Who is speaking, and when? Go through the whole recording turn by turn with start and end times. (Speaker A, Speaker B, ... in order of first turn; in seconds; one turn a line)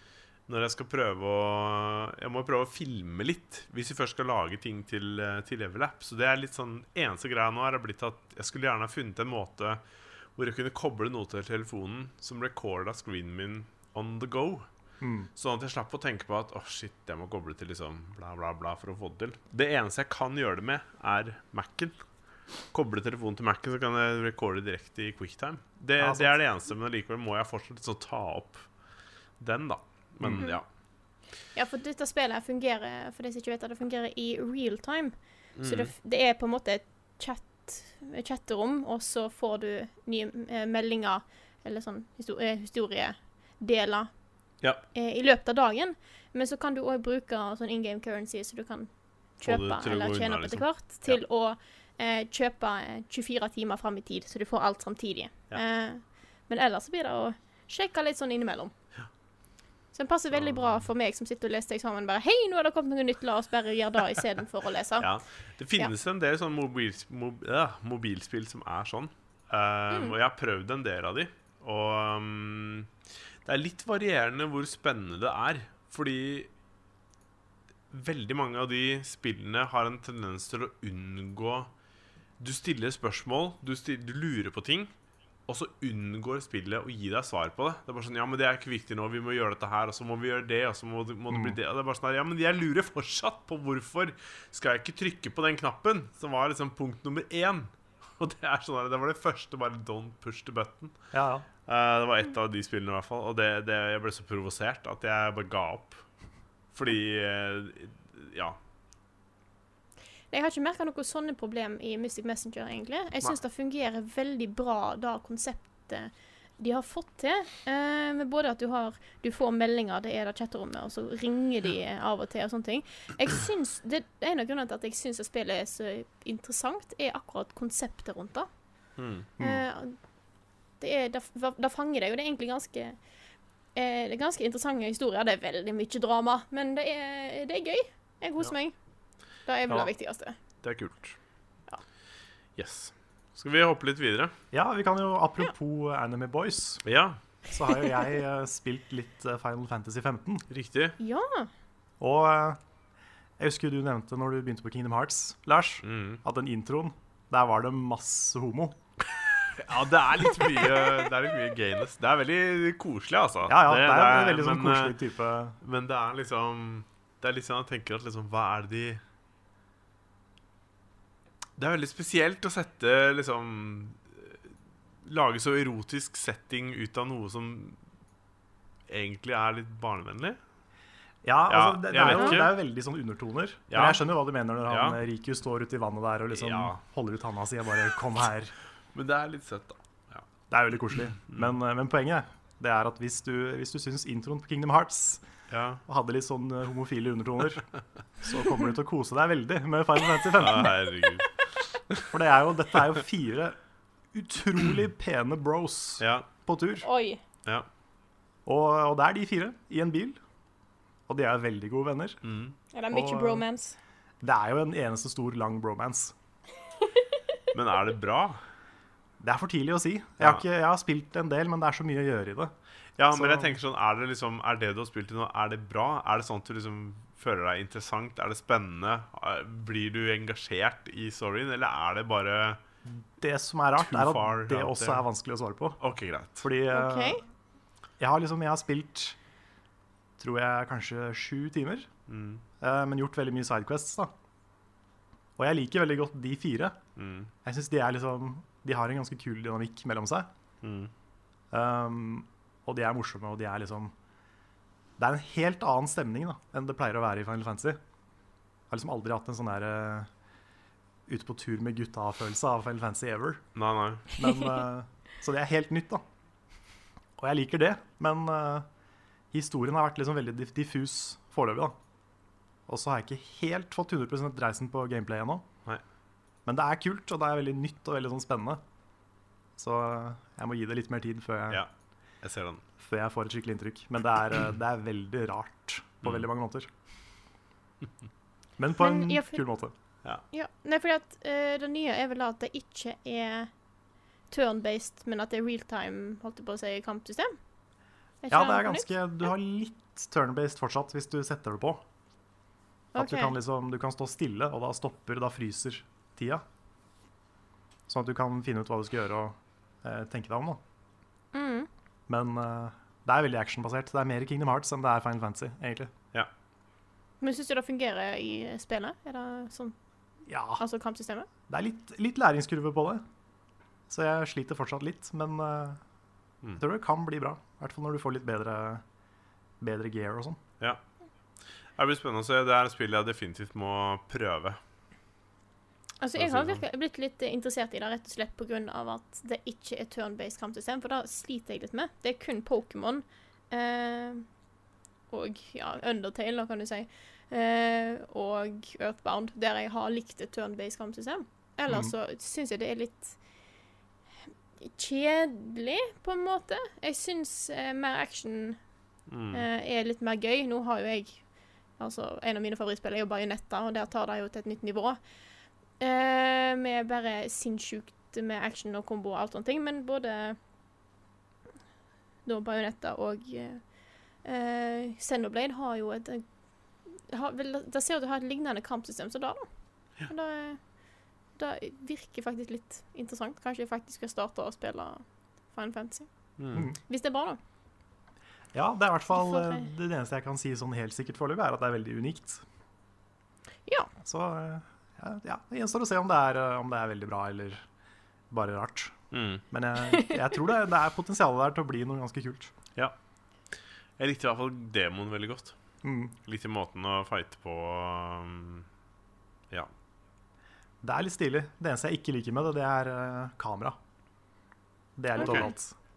Speaker A: 0.5-9.8
Speaker A: 10.3-14.7
Speaker B: 15.0-15.3
Speaker A: 15.3-21.9
Speaker A: 22.7-28.7
Speaker B: 26.0-26.4
Speaker A: 29.4-30.6
Speaker B: 30.2-30.5
Speaker C: 31.5-44.1
Speaker A: 35.6-35.9
Speaker C: 44.9-58.7
Speaker A: 49.4-51.2
Speaker C: 59.9-65.1
Speaker A: 60.5-60.8
Speaker A: 65.0-72.9
Speaker C: 69.9-70.2
Speaker A: 73.4-76.5
Speaker A: 77.9-81.7
Speaker A: 82.4-84.9
Speaker A: 85.5-100.9
Speaker B: 91.3-91.6
Speaker B: 101.1-101.5
Speaker A: 101.7-106.0
Speaker A: 106.7-108.6
Speaker C: 110.3-128.5
Speaker A: 129.0-129.3
Speaker B: 129.4-129.6
Speaker C: 129.4-130.0
Speaker C: 130.8-133.0
Speaker C: 133.7-138.7
Speaker C: 139.4-140.3
Speaker A: 140.6-141.2
Speaker A: 142.6-144.3
Speaker B: 144.5-146.8
Speaker A: 146.8-147.2
Speaker B: 147.5-150.4
Speaker A: 150.5-151.0
Speaker C: 151.0-151.5
Speaker B: 152.0-152.6
Speaker B: 153.4-158.8
Speaker A: 155.8-156.2
Speaker A: 159.4-165.0
Speaker C: 160.8-161.0
Speaker B: 163.4-165.6
Speaker A: 165.6-169.0
Speaker A: 171.6-174.4
Speaker A: 175.0-177.8
Speaker A: 178.9-180.4
Speaker B: 181.2-188.5
Speaker A: 181.5-182.5
Speaker C: 182.1-182.4
Speaker A: 183.7-184.0
Speaker A: 184.7-185.0
Speaker A: 186.3-186.8
Speaker A: 188.9-190.2
Speaker B: 190.5-195.2
Speaker A: 195.5-195.8
Speaker B: 195.9-197.7
Speaker B: 198.2-200.8
Speaker A: 200.3-202.1
Speaker B: 202.1-203.6
Speaker B: 204.1-206.9
Speaker A: 206.0-206.3
Speaker C: 206.8-207.2
Speaker B: 208.4-210.2
Speaker B: 211.1-212.2
Speaker A: 212.2-212.6
Speaker C: 212.7-213.8
Speaker B: 212.9-213.4
Speaker B: 214.2-216.1
Speaker A: 217.5-218.4
Speaker B: 219.2-222.5
Speaker A: 223.0-232.6
Speaker B: 223.1-223.6
Speaker B: 232.8-235.8
Speaker A: 233.8-235.0
Speaker A: 235.8-236.5
Speaker B: 236.4-237.2
Speaker C: 236.7-237.2
Speaker B: 238.0-239.2
Speaker B: 240.2-241.9
Speaker A: 242.1-242.4
Speaker B: 242.6-244.1
Speaker B: 245.4-246.8
Speaker A: 246.9-247.3
Speaker B: 247.4-250.3
Speaker A: 250.6-250.9
Speaker B: 251.5-253.9
Speaker B: 255.0-257.8
Speaker B: 258.7-260.1
Speaker B: 261.1-263.4
Speaker A: 263.6-264.1
Speaker B: 264.1-266.0
Speaker B: 267.2-268.7
Speaker B: 269.3-271.8
Speaker B: 272.7-275.4
Speaker B: 276.4-278.6
Speaker B: 279.6-281.6
Speaker A: 282.2-282.6
Speaker B: 282.8-286.7
Speaker B: 288.6-289.7
Speaker C: 288.8-289.4
Speaker C: 290.3-293.5
Speaker C: 294.3-297.4
Speaker C: 298.2-298.9
Speaker B: 298.3-301.8
Speaker C: 302.9-303.4
Speaker B: 302.9-306.4
Speaker B: 307.9-310.6
Speaker C: 311.3-311.7
Speaker B: 312.1-315.9
Speaker C: 317.2-319.7
Speaker B: 320.3-320.6
Speaker C: 320.6-321.3
Speaker B: 321.5-323.0
Speaker B: 323.9-325.8
Speaker B: 326.6-328.8
Speaker B: 329.6-330.4
Speaker A: 331.8-334.6
Speaker C: 336.0-344.2
Speaker A: 336.1-336.6
Speaker C: 345.1-353.2
Speaker B: 351.7-351.9
Speaker C: 354.6-358.6
Speaker A: 359.1-359.4
Speaker C: 359.3-361.2
Speaker C: 361.8-365.0
Speaker C: 365.8-370.4
Speaker C: 372.2-373.7
Speaker C: 374.2-376.2
Speaker C: 377.1-379.4
Speaker C: 380.1-380.6
Speaker C: 381.4-386.1
Speaker A: 386.4-386.7
Speaker C: 386.9-387.4
Speaker B: 388.5-392.4
Speaker C: 389.1-389.7
Speaker C: 393.6-393.9
Speaker B: 394.0-397.6
Speaker B: 398.3-399.0
Speaker A: 399.1-399.4
Speaker B: 399.5-402.5
Speaker C: 399.9-400.2
Speaker A: 404.0-405.6
Speaker B: 405.8-406.2
Speaker A: 406.2-408.7
Speaker B: 410.8-413.8
Speaker B: 415.0-415.7
Speaker A: 415.2-415.5